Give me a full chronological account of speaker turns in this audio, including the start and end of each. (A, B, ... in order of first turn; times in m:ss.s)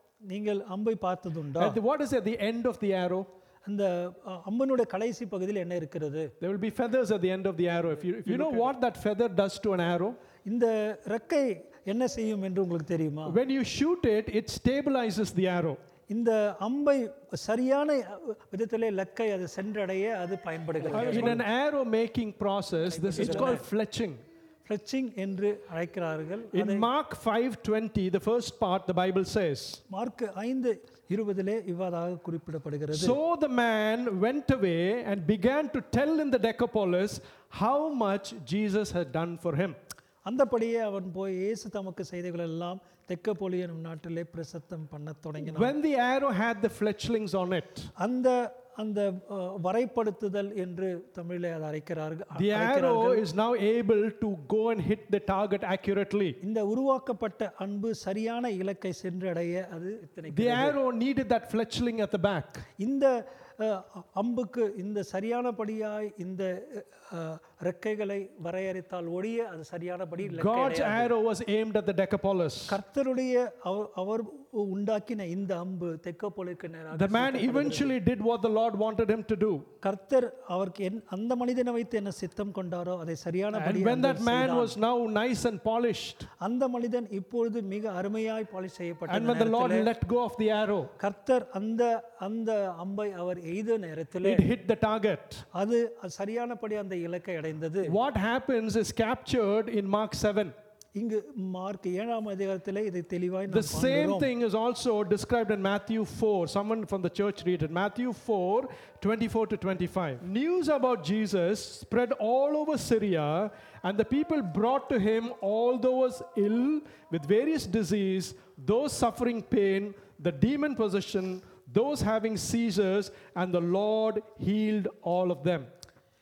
0:00.3-0:01.8 A
0:01.6-0:03.3 B
0:03.6-0:06.3 A
0:06.4-0:10.2 B
0:08.1-0:08.7 A
0:10.5-0:13.4 A
0:13.3-0:15.8 B
0:16.1-0:21.4 A
0:20.8-0:24.2 B
0:22.8-0:23.6 A
0:24.6-0:26.9 A
0:26.5-0:29.8 B
0:29.9-0:33.2 A
0:32.9-0:39.8 B
0:40.2-0:45.7 A
0:45.4-0:47.9 B
0:48.0-0:53.2 A
0:52.3-0:56.4 B
0:56.4-1:00.8 A
1:00.3-1:02.6 B
1:02.8-1:11.1 A
1:10.2-1:12.8 B
1:12.7-1:18.0 A
1:16.9-1:19.6 B
1:19.8-1:24.7 A
1:23.5-1:26.3 B
1:26.4-1:29.9 A
1:29.1-1:30.9 B
1:31.0-1:34.4 A
1:34.2-1:35.4 B
1:35.5-1:37.9 A
1:37.8-1:40.5 B
1:41.0-1:44.3 A
1:43.5-2:05.6 B